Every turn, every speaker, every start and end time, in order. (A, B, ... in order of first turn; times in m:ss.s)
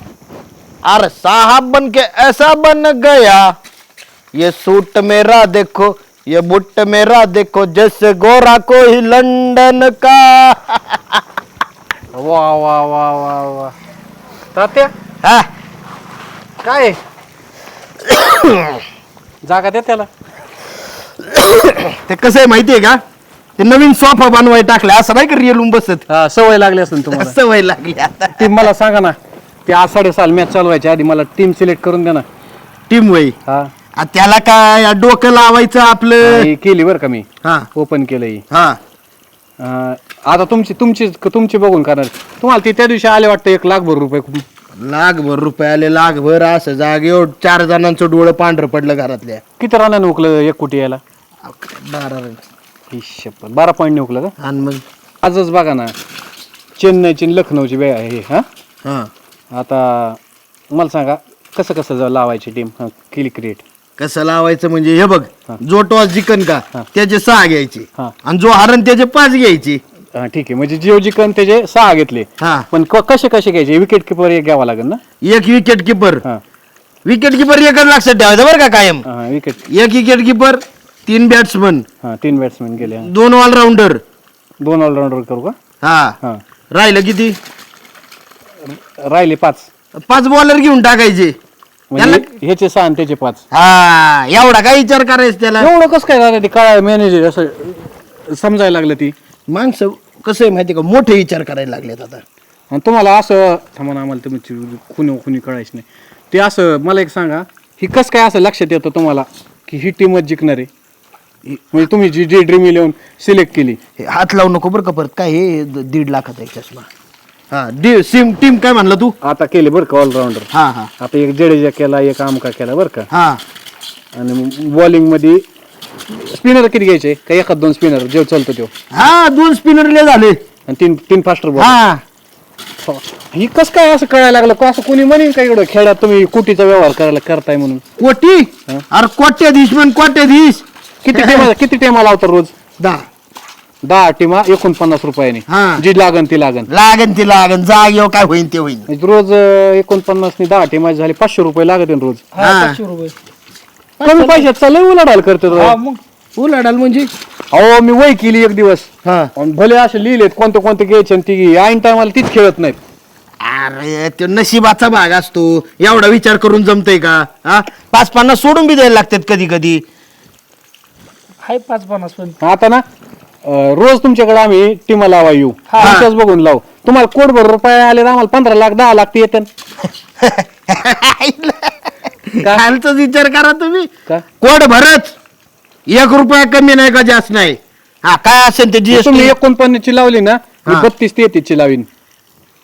0:00.8-0:03.4 A
0:04.4-0:11.0 A
0:12.1-0:13.7 B
0:14.5-0:14.9 B
0:16.6-0:17.0 B
0:18.0-0:18.8 A
0:19.4-0:20.1 B
0:21.7-0:23.0 A
0:23.6-0:26.0 A
0:26.1-0:27.4 B
0:27.1-0:28.6 A
0:28.4-0:32.2 B
0:32.9-0:33.3 A
0:34.0-0:36.5 A
0:36.2-0:38.4 B
0:38.5-0:38.8 A
0:39.6-0:44.4 B
0:44.8-0:49.4 A
0:49.6-0:51.0 B
0:51.4-0:52.4 A
0:52.9-0:54.3 B
0:54.4-0:54.8 A
0:55.2-0:55.9 B
0:56.8-0:58.4 B
0:58.8-0:59.1 A
0:59.5-1:00.2 B
1:00.7-1:03.6 B
1:04.0-1:09.8 A
1:10.2-1:15.0 B
1:12.4-1:12.7 A
1:15.2-1:16.2 A
1:17.0-1:19.0 A
1:19.0-1:19.6 B
1:19.7-1:21.8 A
1:22.0-1:23.1 B
1:22.9-1:24.0 A
1:24.6-1:25.5 B
1:25.8-1:26.2 A
1:26.7-1:27.4 A
1:28.7-1:29.7 B
1:30.0-1:31.3 A
1:31.9-1:33.4 B
1:32.0-1:32.2 A
1:33.5-1:35.7 A
1:35.6-1:39.1 B
1:39.5-1:42.2 A
1:42.7-1:50.7 B
1:51.7-1:53.8 B
1:54.0-1:56.9 A
1:57.5-1:59.1 A
1:59.2-2:00.5 B
2:00.5-2:00.9 A
2:01.0-2:03.1 B
2:03.1-2:03.4 A
2:04.2-2:05.4 B
2:06.1-2:08.7 B
2:08.9-2:10.4 A
2:10.7-2:11.8 B
2:11.6-2:12.0 A
2:12.8-2:17.8 B
2:18.0-2:21.5 A
2:21.0-2:22.5 B
2:22.8-2:23.0 A
2:23.8-2:26.7 B
2:25.5-2:25.8 A
2:26.7-2:28.9 A
2:28.9-2:32.2 B
2:32.3-2:33.2 C
2:32.4-2:32.8 A
2:34.0-2:34.5 A
2:34.0-2:35.8 B
2:35.5-2:36.0 C
2:36.4-2:37.1 A
2:37.5-2:42.8 B
2:39.0-2:39.3 A
2:43.4-2:49.8 A
2:51.4-2:52.4 C
2:52.4-2:52.8 B
2:53.4-2:59.5 B
2:55.7-2:56.0 C
2:55.8-2:56.0 A
3:00.2-3:01.8 A
3:02.3-3:05.1 A
3:05.9-3:09.3 A
3:08.9-3:11.9 B